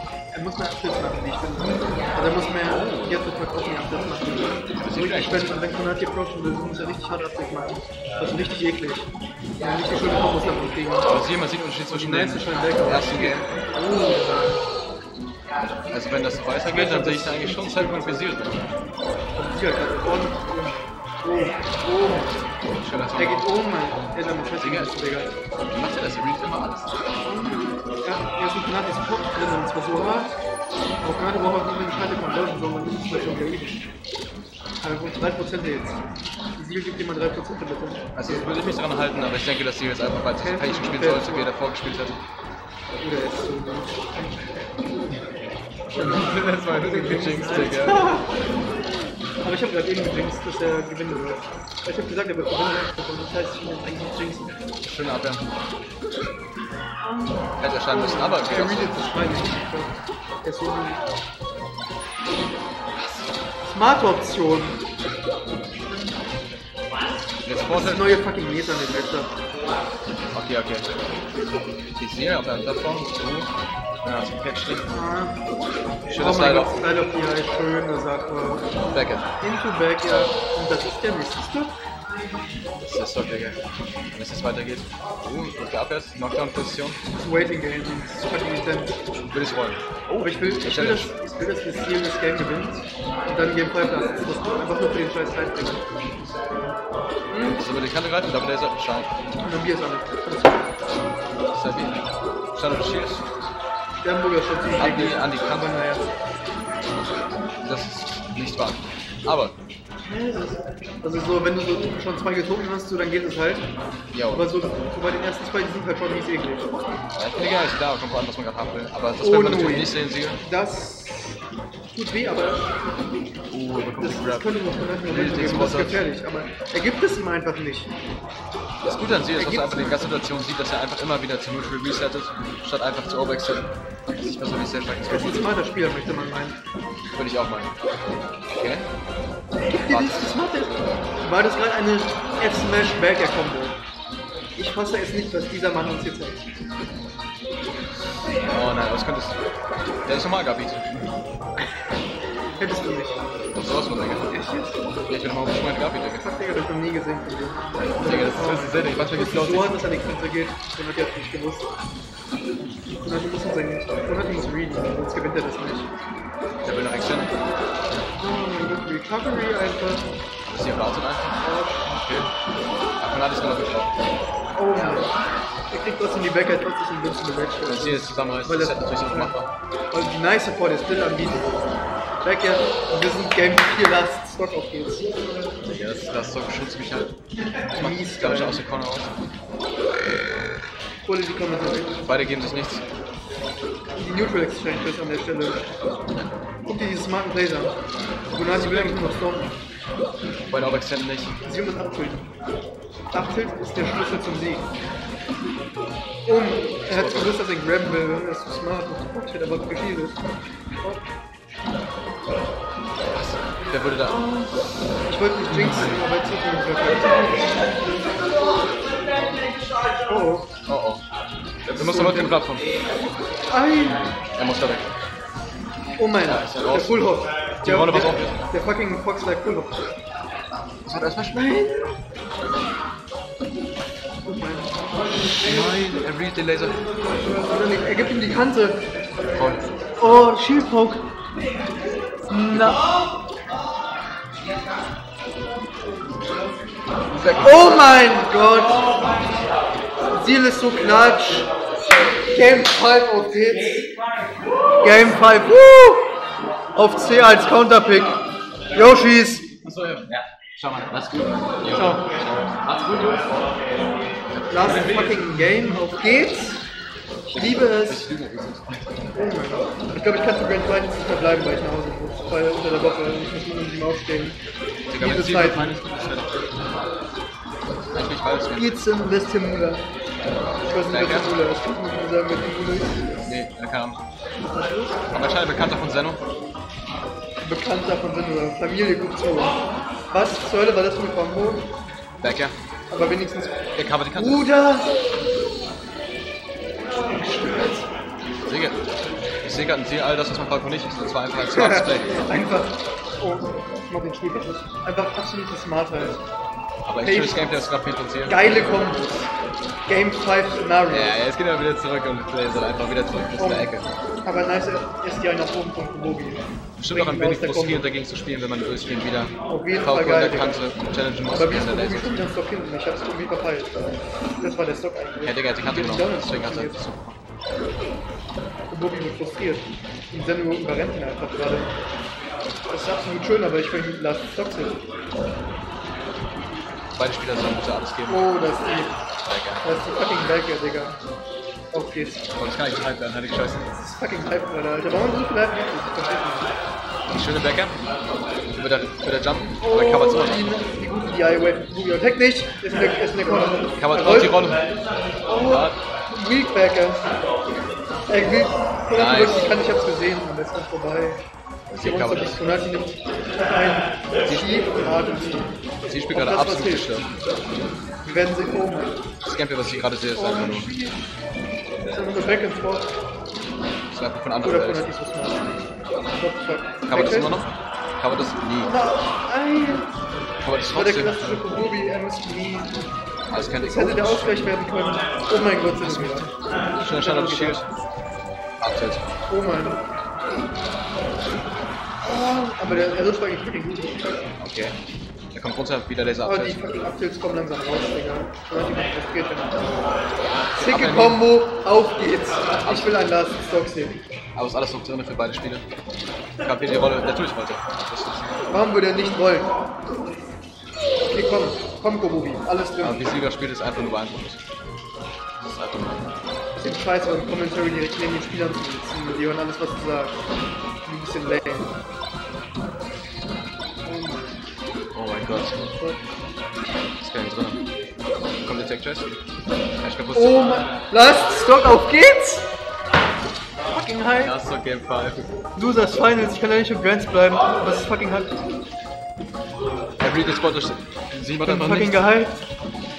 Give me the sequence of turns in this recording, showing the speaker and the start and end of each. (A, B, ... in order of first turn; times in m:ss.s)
0:00.3-0:11.1 A
0:02.7-0:03.2 B
0:04.8-0:05.7 B
0:11.1-0:13.5 B
0:11.9-0:14.6 A
0:15.9-0:18.6 B
0:16.6-0:18.2 A
0:19.4-0:22.4 A
0:22.8-0:23.5 B
0:23.2-0:25.3 A
0:24.6-0:24.9 B
0:25.7-0:26.9 B
0:27.2-0:30.3 A
0:31.0-0:33.8 A
0:34.8-0:36.0 A
0:36.6-0:38.6 A
0:38.2-0:42.2 B
0:40.4-0:41.5 A
0:43.0-0:44.4 A
0:45.9-0:48.2 B
0:46.8-0:48.3 A
0:49.4-0:54.6 A
0:54.8-0:55.4 B
0:57.0-0:59.9 A
0:57.6-0:59.0 B
1:00.4-1:01.0 A
1:02.9-1:03.3 B
1:03.6-1:04.8 A
1:07.4-1:08.2 B
1:07.7-1:09.3 A
1:10.3-1:10.9 B
1:12.0-1:13.5 B
1:14.0-1:14.9 B
1:14.9-1:15.5 A
1:16.1-1:16.8 B
1:16.1-1:18.7 A
1:18.9-1:19.3 B
1:19.4-1:21.8 A
1:22.8-1:23.6 B
1:24.1-1:27.0 B
1:27.1-1:29.0 A
1:29.3-1:29.8 B
1:30.1-1:35.9 A
1:30.6-1:31.1 B
1:37.3-1:37.6 A
1:37.5-1:39.1 B
1:39.4-1:40.7 A
1:41.5-1:42.0 B
1:42.5-1:43.5 B
1:44.0-1:46.1 A
1:44.8-1:45.7 B
1:46.9-1:49.5 B
1:50.0-1:53.7 A
1:54.1-1:54.5 B
1:54.3-1:56.7 A
1:57.2-2:00.4 B
1:59.2-2:01.4 A
2:01.9-2:03.2 A
2:03.5-2:06.0 B
2:04.0-2:08.0 A
2:08.8-2:15.4 B
2:09.4-2:10.2 A
2:15.1-2:16.6 A
2:17.2-2:17.7 B
2:18.6-2:18.9 B
2:19.7-2:23.8 A
2:19.9-2:20.8 B
2:24.6-2:26.4 A
2:28.5-2:29.4 B
2:30.1-2:31.1 B
2:32.6-2:33.3 A
2:33.6-2:34.3 B
2:34.3-2:34.8 A
2:35.1-2:36.3 B
2:36.2-2:41.7 A
2:37.9-2:39.8 B
2:42.9-2:45.9 A
2:46.6-2:47.4 B
2:48.2-2:50.1 A
2:50.5-2:52.3 B
2:51.4-2:52.0 A
2:53.0-2:53.9 B
2:54.6-2:55.1 A
2:55.7-2:59.4 A
2:57.7-2:59.5 B
2:59.9-3:01.6 A
3:02.2-3:05.5 A
3:05.7-3:07.1 B
3:07.7-3:08.6 A
3:07.8-3:09.1 B
3:11.0-3:12.0 A
3:12.0-3:12.8 B
3:14.0-3:15.6 A
3:16.6-3:17.8 A
3:18.3-3:19.6 A
3:18.5-3:19.2 B
3:20.5-3:21.4 B
3:21.4-3:22.3 A
3:23.1-3:24.7 A
3:26.3-3:30.2 A
3:26.8-3:27.4 B
3:33.1-3:34.3 B
3:34.0-3:34.5 A
3:35.1-3:37.8 A
3:35.5-3:36.0 B
3:40.1-3:40.5 A
3:40.7-3:41.0 B
3:41.7-3:42.7 B
3:41.7-3:42.4 A
3:43.5-3:44.0 A
3:44.4-3:44.9 B
3:46.0-3:49.9 A
3:46.3-3:48.4 B
3:50.9-3:52.0 B
3:54.2-3:54.8 A
3:55.4-3:56.8 B
3:57.4-3:58.8 A
3:59.3-3:59.8 B
4:00.0-4:01.1 A
4:02.3-4:02.8 A
4:07.1-4:07.8 B
4:07.4-4:08.9 A
4:10.1-4:11.5 A
4:12.3-4:13.8 A
4:14.8-4:16.1 A
4:16.8-4:18.2 A
4:18.7-4:19.5 A
4:19.6-4:23.4 B
4:21.7-4:22.0 A
4:24.3-4:25.3 B
4:24.5-4:26.6 A
4:27.3-4:28.1 A
4:27.3-4:29.0 B
4:29.1-4:34.4 A
4:34.9-4:36.5 B
4:35.0-4:35.8 A
4:37.8-4:38.8 B
4:38.6-4:39.8 A
4:40.7-4:43.1 A
4:40.9-4:41.3 B
4:43.2-4:44.0 B
4:44.5-4:45.0 A
4:45.1-4:46.2 B
4:47.4-4:49.6 A
4:50.1-4:51.7 A
4:52.2-4:52.6 B
4:52.9-4:54.9 A
4:53.8-4:54.5 B
4:57.0-4:57.8 A
4:58.4-4:58.8 B
4:59.4-5:02.2 B
5:01.5-5:06.2 A
5:06.9-5:08.9 B
5:07.0-5:07.8 A
5:08.3-5:09.3 A
5:09.9-5:11.2 A
5:10.9-5:13.9 B
5:13.4-5:13.7 A
5:14.2-5:17.9 A
5:16.8-5:22.2 B
5:19.5-5:20.7 A
5:21.3-5:23.7 A
5:24.4-5:26.8 A
5:25.2-5:27.2 B
5:28.7-5:31.7 A
5:32.7-5:34.8 A
5:37.0-5:38.3 B
5:38.1-5:39.0 A
5:39.3-5:39.6 B
5:39.6-5:41.0 A
5:41.7-5:42.2 A
5:42.4-5:43.7 B
5:43.8-5:46.5 A
5:47.1-5:47.8 B
5:48.6-5:50.4 B
5:49.6-5:54.4 A
5:53.8-5:54.6 B
5:55.3-5:57.1 A
5:55.4-5:55.8 B
5:58.1-6:01.2 A
5:58.9-5:59.5 B
6:01.7-6:02.5 B
6:01.8-6:03.0 A
6:03.5-6:05.5 A
6:04.2-6:05.0 B
6:05.9-6:07.1 B
6:06.1-6:07.0 A
6:08.0-6:09.0 A
6:09.2-6:10.7 B
6:10.2-6:11.0 A
6:11.9-6:12.9 A
6:13.9-6:14.9 B
6:14.4-6:15.4 A
6:16.2-6:17.4 A
6:16.9-6:17.5 B
6:18.0-6:18.7 B
6:18.6-6:19.9 A
6:20.4-6:21.2 B
6:20.7-6:22.8 A
6:23.3-6:24.5 B
6:23.6-6:26.3 A
6:25.8-6:27.7 B
6:26.8-6:27.7 A
6:28.6-6:29.1 B
6:29.3-6:29.8 A
6:32.0-6:34.3 A
6:34.4-6:34.8 B
6:35.3-6:36.6 B
6:36.2-6:39.7 A
6:40.5-6:41.2 B
6:40.6-6:44.0 A
6:42.6-6:43.0 B
6:44.4-6:45.6 B
6:46.4-6:48.5 B
6:48.5-6:49.5 A
6:51.0-6:53.0 A
6:52.8-6:54.4 B
6:55.4-6:56.0 B
6:56.6-7:00.2 A
7:00.8-7:01.7 A
7:03.8-7:04.3 A
7:04.9-7:05.6 B
7:07.0-7:07.6 B
7:08.4-7:09.1 B
7:09.8-7:10.5 B
7:10.1-7:12.5 A
7:13.7-7:14.4 A
7:14.2-7:15.3 B
7:15.6-7:18.4 A
7:20.0-7:22.2 B
7:21.4-7:22.4 A